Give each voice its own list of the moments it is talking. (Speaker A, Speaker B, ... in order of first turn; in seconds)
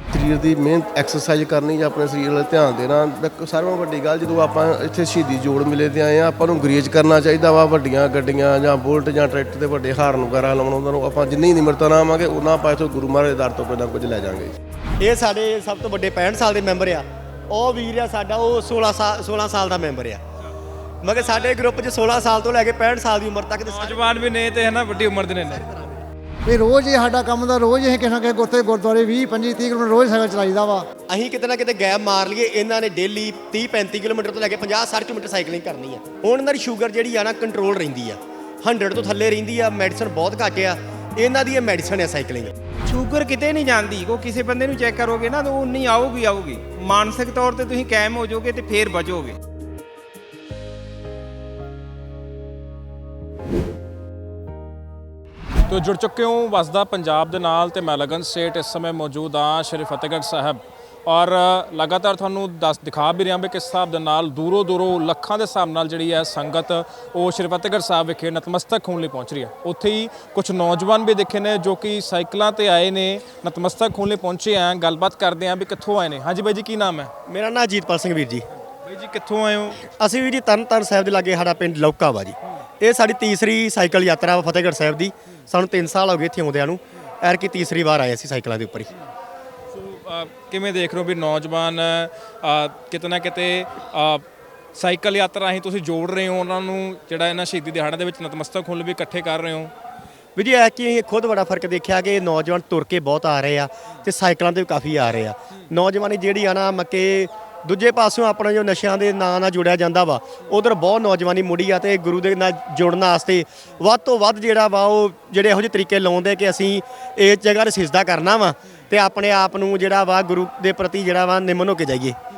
Speaker A: 0.1-14.6
Speaker B: 15.0-20.2, 21.0-24.1, 25.5-26.0, 31.1-42.5, 77.3-78.5, 79.9-88.9, 100.4-122.2
Speaker C: 23.6-25.6, 55.7-77.1, 78.8-79.8, 89.7-94.2, 94.8-99.7
Speaker D: 26.5-30.9
Speaker E: 42.9-49.4